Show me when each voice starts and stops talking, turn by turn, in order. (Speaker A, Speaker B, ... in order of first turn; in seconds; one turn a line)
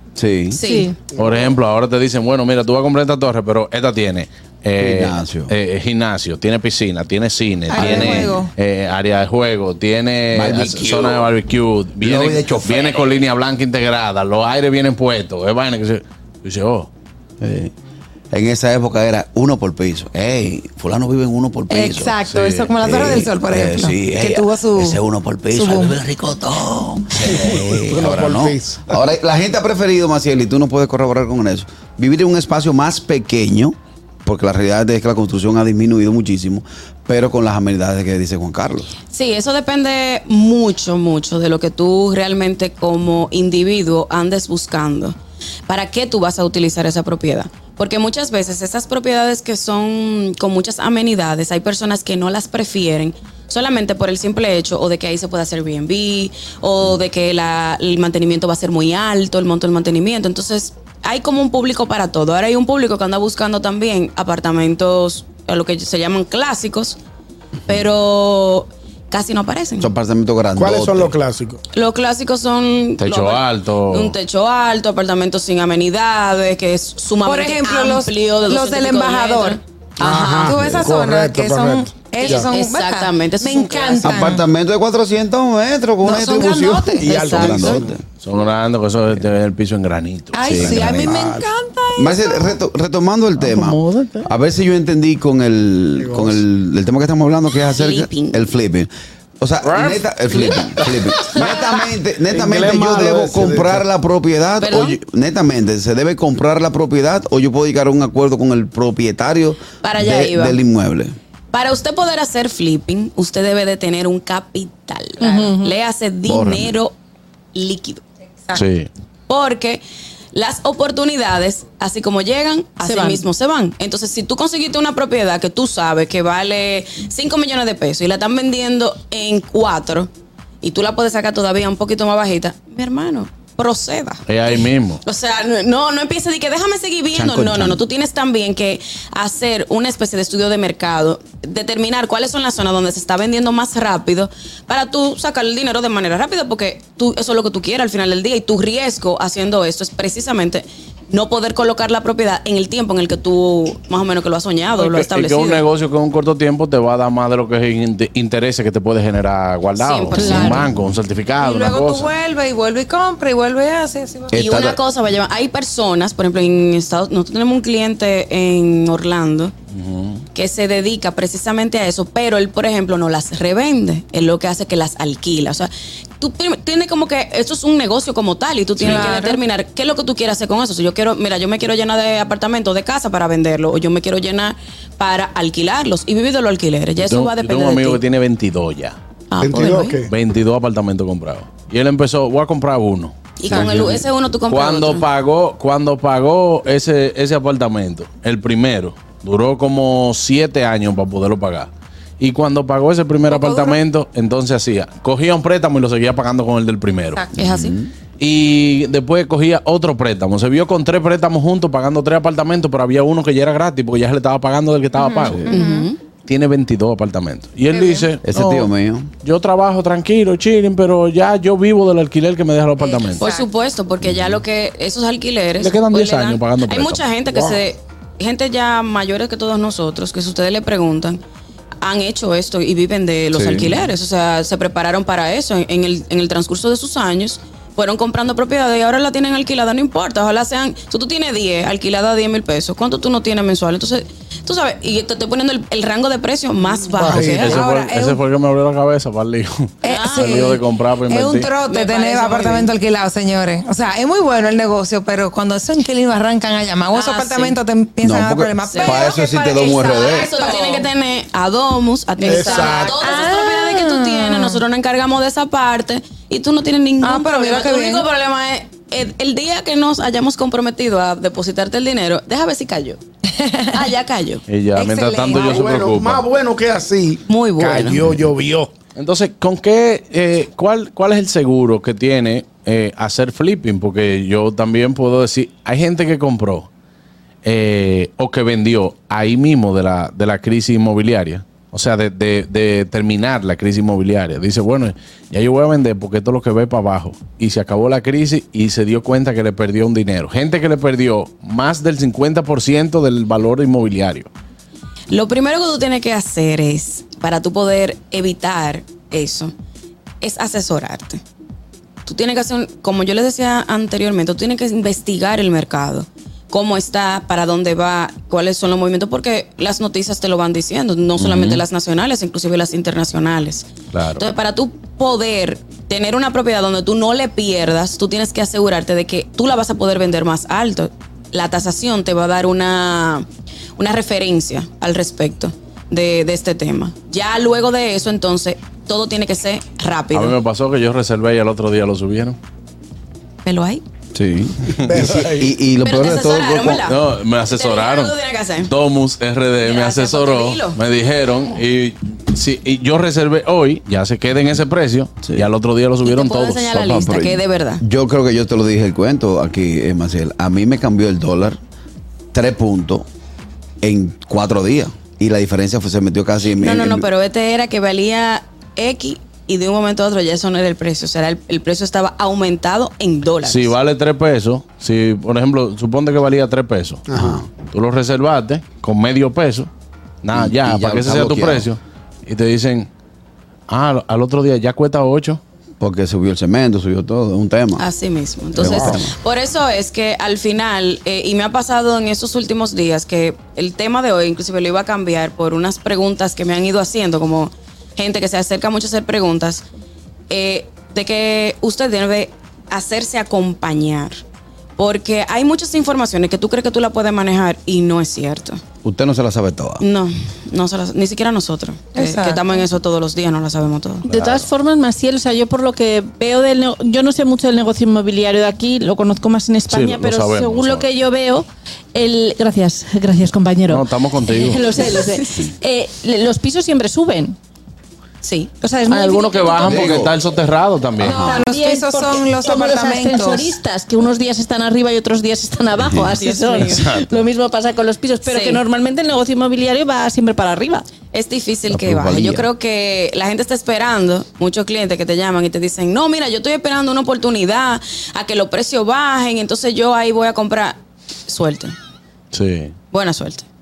Speaker A: 0.2-0.6
Speaker B: 0.5-1.0
Speaker C: 0.6-1.0
Speaker D: 1.1-16.9
Speaker E: 1.1-1.5
Speaker A: 4.8-5.5
Speaker F: 7.7-8.5
Speaker A: 7.8-8.2
Speaker A: 10.3-11.3
Speaker A: 12.0-13.1
Speaker A: 17.4-17.7
Speaker A: 18.3-22.2
Speaker F: 21.7-25.0
Speaker D: 22.3-22.7
Speaker A: 22.8-38.9
Speaker F: 25.5-26.0
Speaker E: 27.2-29.0
Speaker B: 39.1-45.1
Speaker B: 45.7-67.0
Speaker B: 67.7-69.9
Speaker A: 69.8-71.2
Speaker E: 70.6-71.6
Speaker B: 71.7-80.6
Speaker D: 73.0-74.2
Speaker F: 77.2-79.6
Speaker E: 80.0-82.5
Speaker F: 80.4-84.4
Speaker B: 82.2-84.3
Speaker A: 84.0-88.0
Speaker F: 86.0-87.2
Speaker B: 87.0-87.8
Speaker E: 87.0-88.0
Speaker D: 88.2-90.6
Speaker F: 90.3-92.5
Speaker A: 90.4-91.4
Speaker E: 90.6-91.5
Speaker A: 92.0-111.2
Speaker D: 93.4-94.3
Speaker E: 96.0-96.4
Speaker B: 97.7-98.5
Speaker D: 99.6-101.0
Speaker E: 102.3-103.8
Speaker B: 104.6-105.0
Speaker B: 109.8-110.6
Speaker B: 111.5-117.0
Speaker C: 115.2-115.7
Speaker A: 116.3-116.7
Speaker B: 117.5-118.0
Speaker D: 118.5-118.9
Speaker B: 119.3-119.8
Speaker B: 120.3-130.1
Speaker C: 122.8-123.2
Speaker B: 130.6-134.2
Speaker D: 134.3-135.0
Speaker B: 135.0-155.7
Speaker A: 137.2-137.8
Speaker D: 154.8-162.1
Speaker B: 159.8-160.7
Speaker C: 160.1-160.7
Speaker F: 161.4-164.4
Speaker A: 164.3-164.8
Speaker B: 164.3-169.5
Speaker D: 169.8-170.2
Speaker B: 170.3-188.0
Speaker F: 178.8-179.4
Speaker D: 178.8-179.1
Speaker D: 187.0-189.0
Speaker B: 189.3-190.0
Speaker E: 189.4-190.1
Speaker D: 190.1-207.2
Speaker B: 193.4-195.1
Speaker F: 203.3-203.8
Speaker B: 207.3-207.8
Speaker A: 207.4-207.9
Speaker D: 208.2-215.5
Speaker F: 215.0-215.9
Speaker B: 215.5-216.0
Speaker D: 216.2-218.7
Speaker F: 217.7-218.1
Speaker A: 218.2-219.1
Speaker D: 219.2-223.3
Speaker F: 222.8-223.5
Speaker B: 223.2-231.2
Speaker A: 224.1-224.4
Speaker D: 225.6-227.1
Speaker B: 231.8-247.6
Speaker A: 233.3-233.9
Speaker E: 246.9-247.5
Speaker D: 247.1-251.5
Speaker F: 247.3-248.2
Speaker F: 249.8-259.2
Speaker B: 249.9-250.6
Speaker B: 251.7-252.7
Speaker B: 256.9-257.6
Speaker A: 258.0-260.3
Speaker B: 258.6-273.0
Speaker F: 260.3-260.6
Speaker E: 262.2-263.0
Speaker F: 262.4-264.6
Speaker F: 267.0-268.1
Speaker B: 273.7-274.4
Speaker D: 274.5-276.2
Speaker F: 274.8-275.6
Speaker E: 275.3-278.7
Speaker B: 277.3-278.0
Speaker D: 279.0-286.7
Speaker D: 287.4-304.3
Speaker B: 305.1-309.5
Speaker B: 310.2-311.2
Speaker B: 312.1-333.3
Speaker D: 321.2-321.6
Speaker D: 323.9-324.3
Speaker B: 333.8-340.4
Speaker D: 340.1-342.4
Speaker B: 343.4-343.8
Speaker A: 344.1-346.9
Speaker E: 344.9-345.6
Speaker B: 345.8-348.7
Speaker D: 346.9-356.9
Speaker B: 349.6-350.8
Speaker B: 356.0-357.8
Speaker A: 356.8-361.6
Speaker A: 362.3-363.1
Speaker A: 363.8-367.1
Speaker B: 366.6-373.8
Speaker D: 373.4-379.7
Speaker A: 377.1-377.4
Speaker D: 380.2-382.9
Speaker A: 380.3-381.7
Speaker D: 383.7-385.4
Speaker A: 385.8-387.8
Speaker B: 387.8-399.7
Speaker A: 388.6-389.1
Speaker B: 400.3-404.2
Speaker B: 404.8-408.6
Speaker A: 408.8-409.8
Speaker B: 409.8-414.1
Speaker F: 411.9-412.6
Speaker D: 414.1-414.5
Speaker C: 414.1-427.4
Speaker D: 419.7-420.9
Speaker D: 423.7-424.7
Speaker B: 424.8-425.5
Speaker B: 428.2-428.5
Speaker C: 428.6-430.1
Speaker D: 428.9-431.4
Speaker A: 429.6-430.1
Speaker C: 431.0-440.9
Speaker F: 431.0-433.5
Speaker A: 435.8-436.1
Speaker B: 436.1-437.0
Speaker D: 436.7-437.2
Speaker B: 438.2-438.6
Speaker B: 441.1-451.8
Speaker A: 441.7-442.5
Speaker D: 452.3-452.7
Speaker B: 452.9-453.4